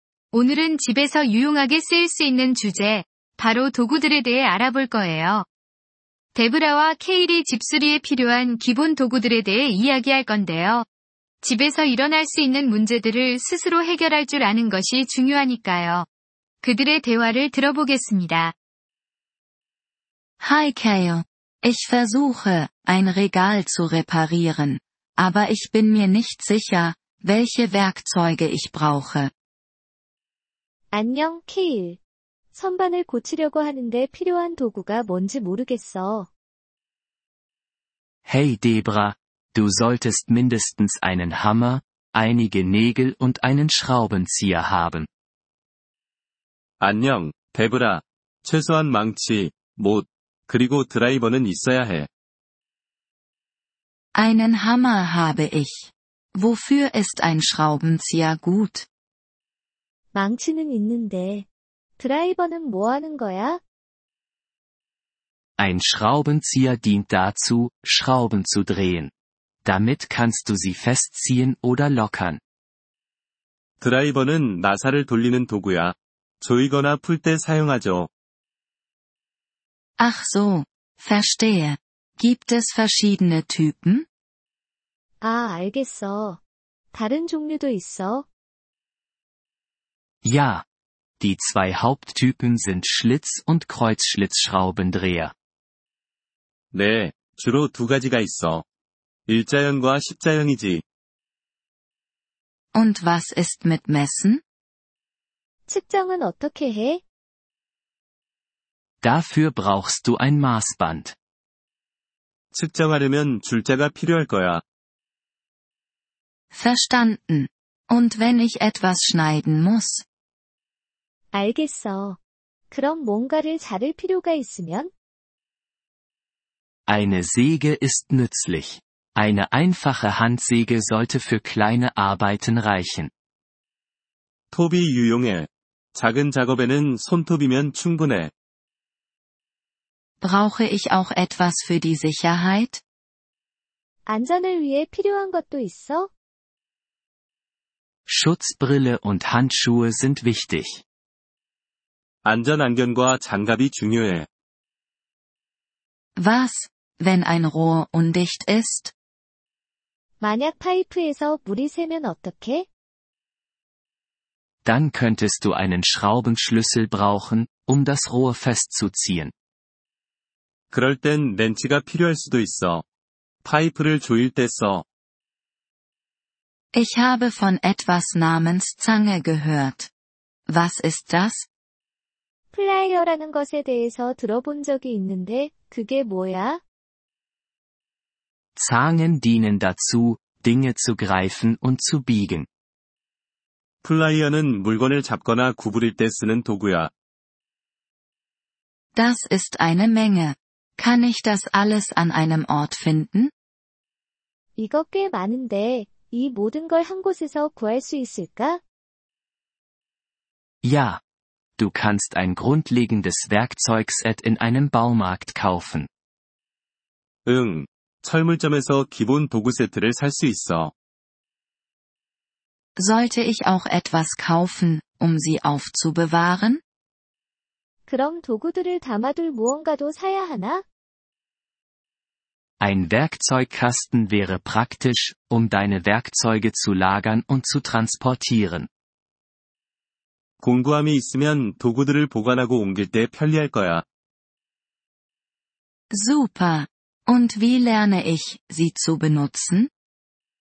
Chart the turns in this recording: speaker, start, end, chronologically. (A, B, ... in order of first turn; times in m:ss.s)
0:00.3-0:05.5 A
0:06.4-0:10.9 A
0:11.4-0:16.1 A
0:16.6-0:18.5 A
0:20.4-0:29.3 B
0:30.9-0:32.0 C
0:32.5-0:36.3 C
0:38.2-0:45.1 D
0:46.8-0:52.1 E
0:54.2-0:58.9 B
1:00.1-1:01.4 C
1:02.0-1:03.6 C
1:05.6-1:09.1 D
1:09.6-1:12.4 D
1:13.8-1:18.1 E
1:20.0-1:24.1 B
1:25.2-1:26.4 C
1:26.9-1:28.3 C
1:30.2-1:30.6 D
1:31.2-1:35.3 D
1:36.7-1:38.6 E
1:39.3-1:40.8 E
1:42.7-1:44.4 B
1:45.7-1:47.0 C
1:49.0-1:51.1 D
1:52.5-1:54.6 E
1:56.5-2:00.0 B
2:01.3-2:02.2 C
2:02.7-2:04.9 C
2:06.9-2:13.1 D
2:14.5-2:18.3 E
2:20.2-2:22.8 B
2:24.0-2:26.1 C
2:28.1-2:30.8 D
2:32.2-2:34.3 E
2:36.2-2:38.9 B
2:40.2-2:42.7 C
2:44.6-2:49.3 D
2:50.7-2:52.8 E
2:53.4-2:54.8 E
2:56.7-2:59.9 B
3:00.5-3:01.4 B
3:02.5-3:06.6 C
3:08.6-3:12.5 D
3:13.8-3:16.9 E
3:18.9-3:23.3 B
3:24.6-3:28.6 C
3:30.6-3:31.0 D
3:31.6-3:35.9 D
3:37.2-3:40.7 E
3:42.8-3:46.6 B
3:47.9-3:50.6 C
3:52.6-3:58.7 D
4:00.4-4:03.8 E
4:05.9-4:09.7 B